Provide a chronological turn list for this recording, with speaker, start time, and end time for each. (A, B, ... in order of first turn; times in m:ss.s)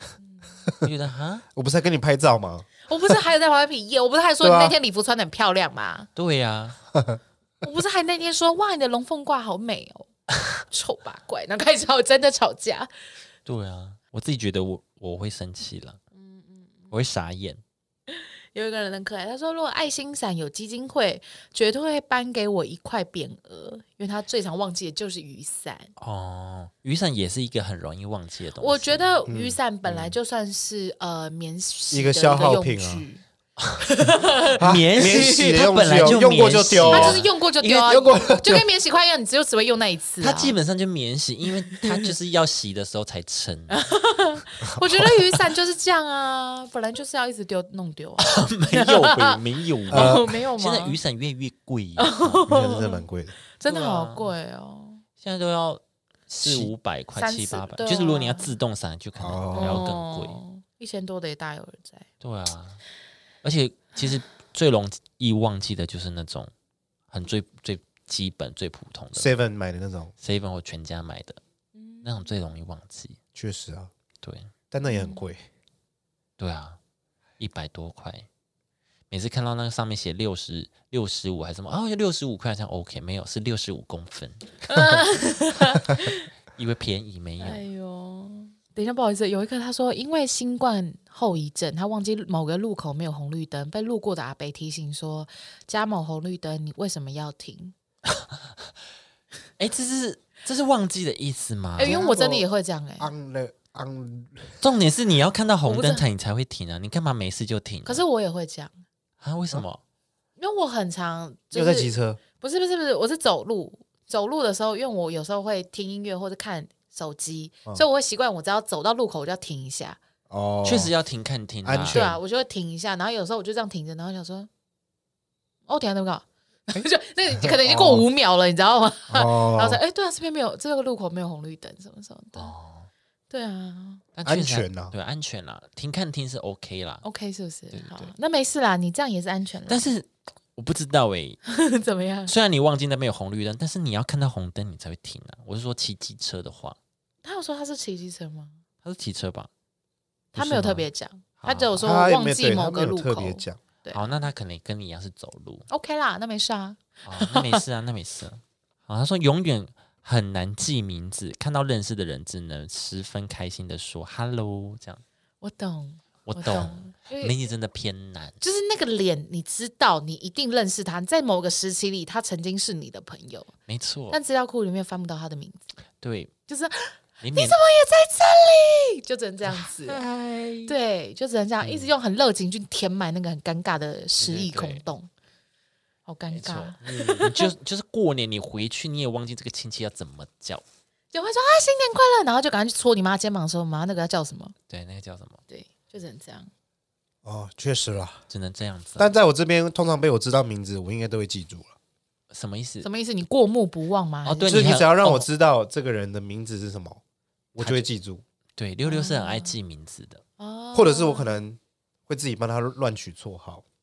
0:00.8-0:01.4 A
0:01.6-0:03.1 B
0:02.9-0:06.1 C
0:04.4-0:04.8 B
0:06.2-0:06.8 A
0:06.9-0:07.2 B
0:07.6-0:10.1 C
0:10.6-0:12.9 C
0:13.5-0:16.0 A
0:16.2-0:16.9 C
0:16.9-0:17.6 A
0:18.1-0:25.9 C
0:26.0-0:29.1 A
0:28.6-0:33.2 C
0:29.3-0:30.2 B
0:31.9-0:33.0 B
0:33.8-0:34.6 C
0:34.6-0:37.3 A
0:34.6-0:38.7 B
0:36.9-0:40.6 C
0:40.2-0:43.8 A
0:41.8-0:42.1 C
0:43.7-0:51.0 C
0:48.2-0:52.5 A
0:49.9-0:50.4 B
0:52.0-0:55.0 C
0:52.5-0:53.4 B
0:53.7-0:54.3 A
0:55.2-1:00.4 A
0:56.4-0:56.7 B
0:57.1-0:58.6 C
0:59.2-0:59.9 B
0:59.6-1:02.1 C
1:02.2-1:02.8 A
1:03.4-1:06.5 A
1:07.1-1:09.3 A
1:09.1-1:10.1 B
1:10.2-1:11.4 A
1:11.8-1:12.3 C
1:12.0-1:13.2 A
1:13.4-1:13.9 B
1:14.2-1:14.5 A
1:14.7-1:15.5 B
1:14.8-1:15.2 C
1:16.4-1:16.8 A
1:17.4-1:18.3 A
1:19.1-1:25.0 A
1:24.7-1:26.3 C
1:26.6-1:27.6 A
1:27.4-1:37.7 C
1:39.6-1:42.0 A
1:41.8-1:43.1 C
1:41.8-1:42.5 B
1:43.0-1:44.6 B
1:44.6-1:48.0 A
1:45.7-1:46.0 C
1:47.8-1:48.8 C
1:49.2-1:49.8 A
1:50.4-2:00.0 C
1:51.5-1:52.2 B
2:00.3-2:00.9 B
2:00.6-2:02.0 A
2:01.6-2:02.2 B
2:01.9-2:04.5 C
2:05.7-2:12.5 C
2:07.4-2:08.1 B
2:09.1-2:09.8 B
2:12.4-2:12.9 A
2:13.3-2:14.0 C
2:14.2-2:17.0 A
2:14.2-2:14.9 B
2:17.0-2:19.9 C
2:17.7-2:18.1 A
2:19.7-2:21.4 A
2:21.4-2:22.3 C
2:22.3-2:26.8 A
2:27.2-2:28.6 C
2:28.8-2:29.5 A
2:30.3-2:34.0 C
2:30.4-2:30.8 A
2:31.4-2:31.9 A
2:31.8-2:33.6 B
2:33.9-2:35.7 A
2:35.7-2:37.6 C
2:37.0-2:45.0 A
2:45.4-2:47.4 C
2:46.3-2:48.4 A
2:48.4-2:53.5 C
2:53.7-2:54.2 A
2:54.1-2:55.7 C
2:56.0-2:56.3 A
2:56.5-3:00.0 C
2:57.2-2:57.6 A
2:59.5-3:00.7 A
3:00.6-3:05.1 C
3:04.2-3:04.8 A
3:06.1-3:07.5 C
3:06.3-3:10.6 A
3:06.9-3:07.3 B
3:11.1-3:14.6 C
3:14.7-3:15.4 A
3:15.5-3:16.5 C
3:17.2-3:18.2 B
3:18.3-3:19.1 A
3:19.0-3:21.8 B
3:22.3-3:22.9 A
3:22.8-3:24.7 C
3:24.2-3:25.3 A
3:24.4-3:27.0 B
3:27.5-3:28.2 B
3:27.6-3:27.9 A
3:28.6-3:30.2 A
3:28.9-3:29.6 C
3:30.4-3:31.4 C
3:30.7-3:33.6 B